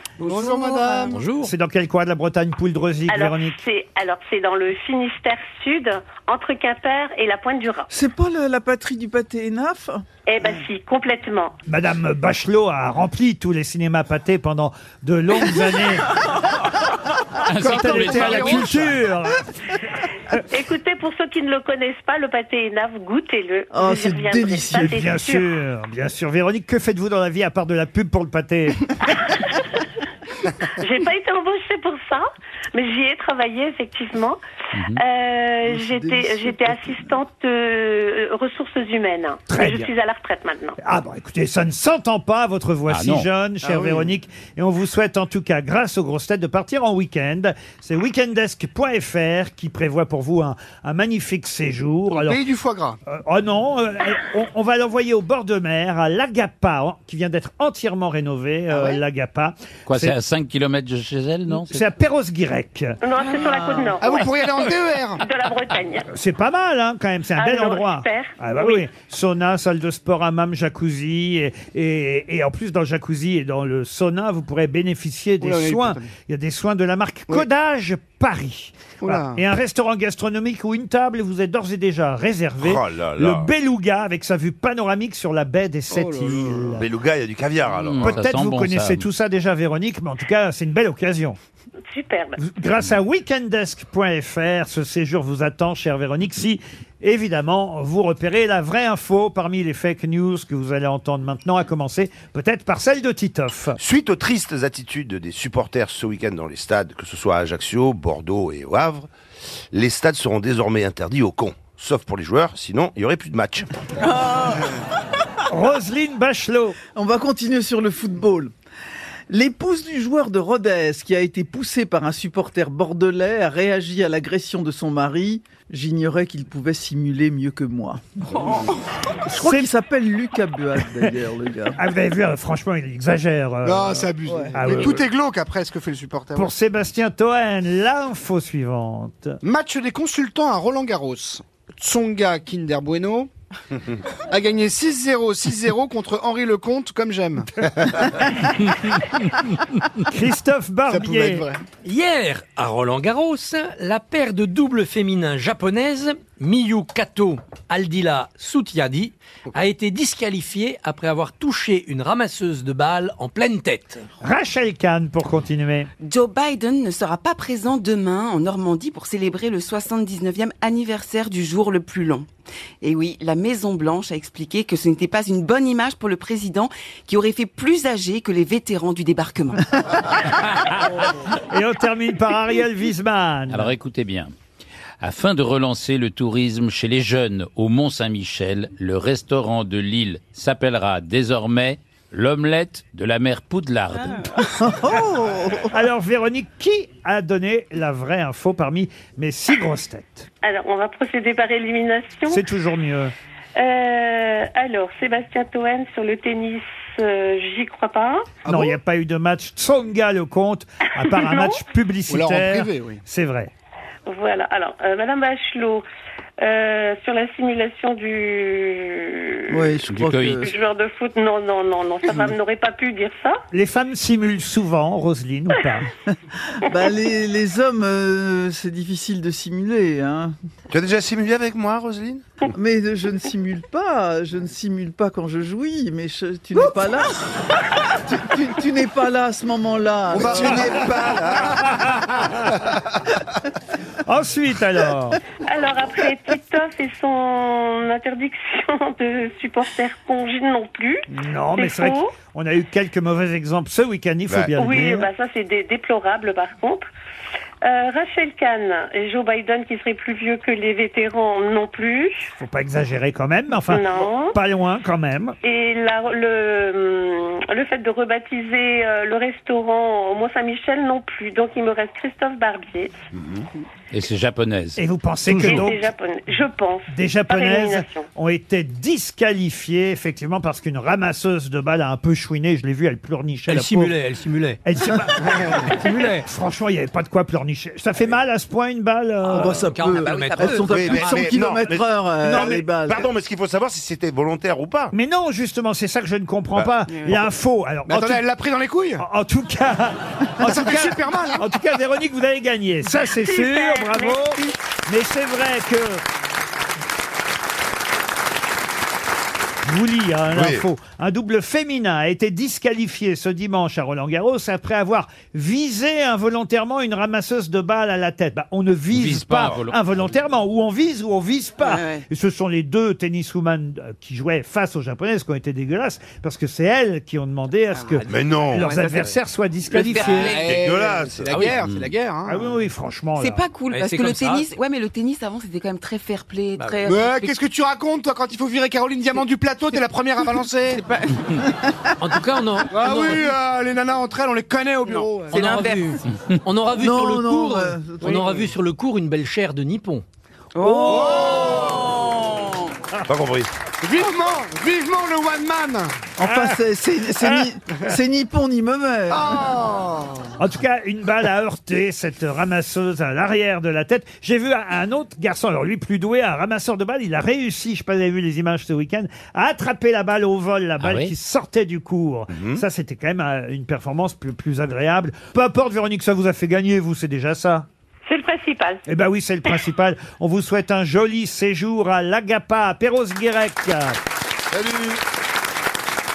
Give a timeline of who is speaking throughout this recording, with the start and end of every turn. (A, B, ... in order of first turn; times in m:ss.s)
0:00.2-0:01.3 A
0:01.1-0:01.5 B
0:01.3-0:03.6 C
0:03.1-0:07.9 D
0:07.9-0:10.0 E
0:10.3-0:11.6 D
0:11.7-0:16.1 C
0:17.4-0:19.0 F
0:17.6-0:18.9 A
0:17.6-0:19.4 C
0:20.5-0:25.5 D
0:23.7-0:25.0 E
0:24.8-0:29.1 C
0:29.2-0:29.6 D
0:30.7-0:34.4 D
0:34.8-0:35.0 F
0:34.9-0:40.8 D
0:35.7-0:37.2 E
0:39.5-0:39.9 C
0:40.8-0:52.4 C
0:42.9-0:43.3 F
0:43.6-0:44.1 E
0:52.1-0:53.0 A
0:53.1-1:00.2 C
0:59.9-1:01.8 F
1:01.5-1:03.0 C
1:03.0-1:04.4 D
1:04.0-1:05.2 A
1:05.2-1:06.1 D
1:06.1-1:26.9 C
1:07.4-1:08.3 D
1:15.4-1:16.1 A
1:19.0-1:19.4 A
1:22.6-1:23.5 G
1:25.9-1:26.8 A
1:26.8-1:28.2 G
1:27.8-1:29.1 F
1:27.9-1:31.4 C
1:31.9-1:32.4 D
1:32.4-1:43.8 C
1:43.8-1:49.1 G
1:49.7-1:53.7 G
1:55.5-1:56.8 C
1:57.0-1:58.5 E
1:59.3-2:08.7 E
2:09.3-2:11.8 E
2:09.3-2:09.7 C
2:11.8-2:15.0 C
2:13.6-2:16.5 A
2:14.3-2:14.6 E
2:16.3-2:19.4 C
2:19.4-2:28.1 A
2:30.0-2:31.5 C
2:30.9-2:31.6 A
2:31.8-2:44.0 B
2:44.2-2:45.9 C
2:46.0-2:52.3 H
2:52.8-2:59.7 H
3:01.5-3:03.7 C
3:03.5-3:04.3 F
3:05.0-3:14.5 F
3:14.6-3:15.8 E
3:15.7-3:20.3 C
3:20.4-3:22.4 D
3:22.3-3:23.1 C
3:23.6-3:28.4 D
3:28.4-3:28.8 A
3:28.5-3:33.5 C
3:31.0-3:31.6 D
3:32.1-3:33.0 A
3:34.1-3:35.8 D
3:36.4-3:39.7 D
3:39.5-3:40.5 E
3:39.9-3:40.5 F
3:40.4-3:43.4 D
3:43.5-3:45.9 C
3:46.6-3:50.3 E
3:50.7-3:52.2 G
3:52.5-4:01.1 E
4:00.1-4:01.8 G
4:04.1-4:05.2 C
4:05.4-4:12.2 D
4:11.1-4:15.1 C
4:14.6-4:16.9 D
4:17.6-4:22.3 D
4:22.4-4:25.4 C
4:23.7-4:24.4 D
4:25.4-4:32.9 D
4:33.9-4:34.8 F
4:34.8-4:35.9 C
4:35.3-4:35.6 B
4:35.4-4:38.0 D
4:36.9-4:44.0 C
4:43.5-4:44.6 B
4:44.6-4:49.9 C
4:45.7-4:46.3 B
4:49.3-4:51.6 B
4:49.3-4:53.1 E
4:50.1-4:50.4 H
4:50.7-4:54.9 G
4:54.9-4:58.3 C
4:56.6-4:57.2 A
4:56.9-4:57.2 H
4:57.8-4:59.0 A
4:59.0-5:06.0 C
5:00.4-5:01.5 A
5:03.0-5:04.5 D
5:09.6-5:30.4 C
5:10.3-5:10.7 G
5:18.9-5:19.8 F
5:21.6-5:22.0 H
5:27.8-5:29.1 H
5:28.1-5:28.6 G
5:29.7-5:30.9 H
5:30.0-5:32.4 A
5:30.6-5:31.3 G
5:31.2-5:31.6 B
5:31.6-5:31.9 F
5:32.2-5:33.5 C
5:33.2-5:37.4 H
5:33.7-5:34.5 B
5:36.6-5:36.8 B
5:36.8-5:40.8 A
5:42.0-5:43.2 B
5:42.7-5:45.5 A
5:44.9-5:46.0 H
5:45.2-5:50.0 B
5:46.8-5:48.5 E
5:48.0-5:48.3 A
5:50.6-5:52.7 H
5:50.6-5:51.1 C
5:50.9-5:51.9 A
5:53.1-5:53.5 G
5:53.8-5:56.6 A
5:56.2-5:59.5 E
5:59.1-6:00.3 A
6:00.4-6:17.7 C
6:10.8-6:11.1 F
6:12.3-6:12.6 G
6:18.1-6:18.8 D
6:18.9-6:24.0 C